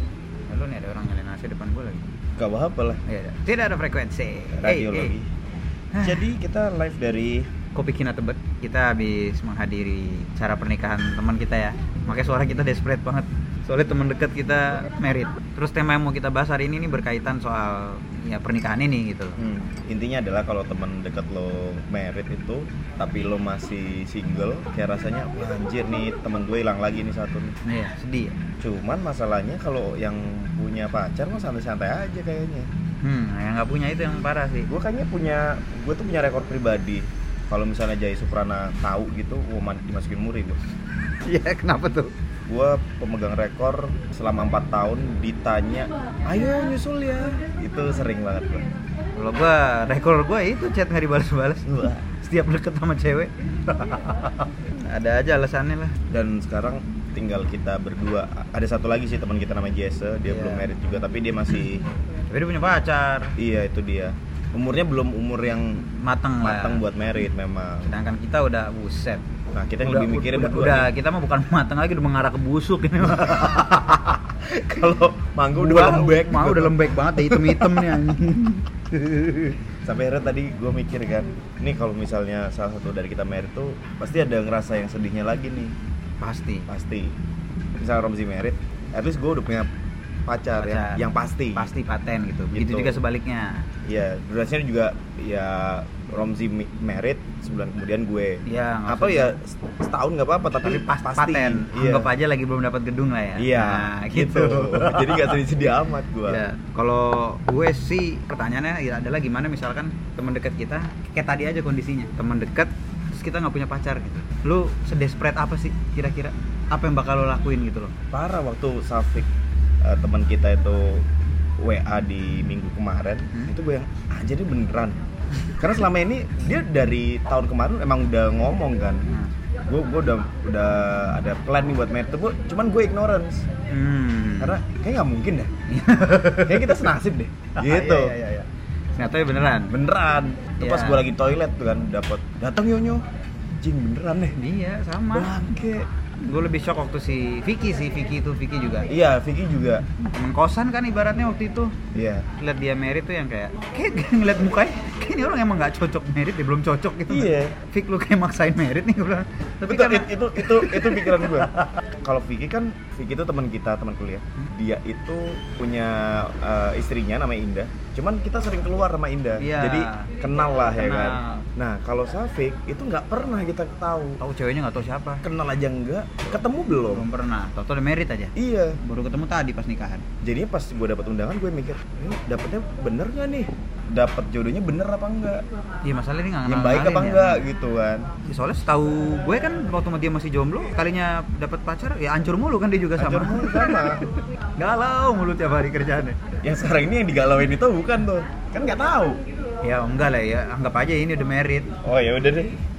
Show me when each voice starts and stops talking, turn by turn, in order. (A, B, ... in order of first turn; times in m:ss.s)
0:00.5-0:02.1 A
0:02.4-0:03.0 B
0:03.0-0:05.1 A
0:04.5-0:05.3 B
0:05.9-0:06.2 A
0:06.0-0:07.5 B
0:07.7-0:19.4 A
0:19.4-0:27.6 B
0:27.6-0:28.4 A
0:28.6-0:32.7 B
0:33.0-0:34.7 A
0:34.7-0:40.6 B
0:41.2-0:42.1 A
0:42.5-0:48.7 B
0:49.1-0:56.0 A
0:51.7-0:52.0 B
0:56.1-1:01.8 B
1:00.3-1:00.7 A
1:02.3-1:03.4 A
1:03.4-1:05.9 B
1:05.9-1:06.8 A
1:06.4-1:07.9 B
1:07.8-1:09.2 A
1:09.5-1:10.9 B
1:09.8-1:14.9 A
1:13.2-1:13.7 B
1:14.6-1:17.9 B
1:15.6-1:19.6 A
1:19.8-1:25.8 B
1:26.2-1:26.7 A
1:26.7-1:27.2 B
1:27.8-1:29.7 B
1:30.3-1:31.7 B
1:30.6-1:31.0 A
1:31.6-1:33.7 A
1:32.5-1:33.0 B
1:33.8-1:42.1 B
1:38.5-1:39.4 A
1:40.6-1:45.4 A
1:43.4-1:46.4 B
1:46.3-1:58.0 A
1:58.1-1:59.3 B
1:59.8-2:01.1 B
2:01.6-2:05.0 B
2:05.6-2:09.1 B
2:09.7-2:13.5 B
2:13.7-2:14.6 A
2:14.4-2:15.5 B
2:15.7-2:16.9 A
2:16.3-2:18.2 B
2:17.6-2:19.7 A
2:19.7-2:23.0 B
2:20.6-2:21.0 A
2:23.6-2:24.4 B
2:24.4-2:25.5 A
2:25.1-2:25.8 B
2:26.2-2:28.9 A
2:28.9-2:29.9 B
2:30.0-2:31.8 A
2:31.9-2:32.3 B
2:32.4-2:41.7 A
2:37.1-2:37.6 B
2:39.7-2:54.2 B
2:49.4-2:50.1 A
2:50.8-2:51.5 A
2:54.2-2:55.2 A
2:55.2-2:57.1 B
2:56.4-3:00.0 A
2:58.4-2:58.8 B
3:00.2-3:05.4 B
3:05.8-3:07.5 A
3:06.4-3:08.1 B
3:08.2-3:13.9 A
3:13.0-3:14.0 B
3:14.6-3:16.2 A
3:16.4-3:19.2 B
3:19.6-3:21.7 A
3:21.8-3:22.6 B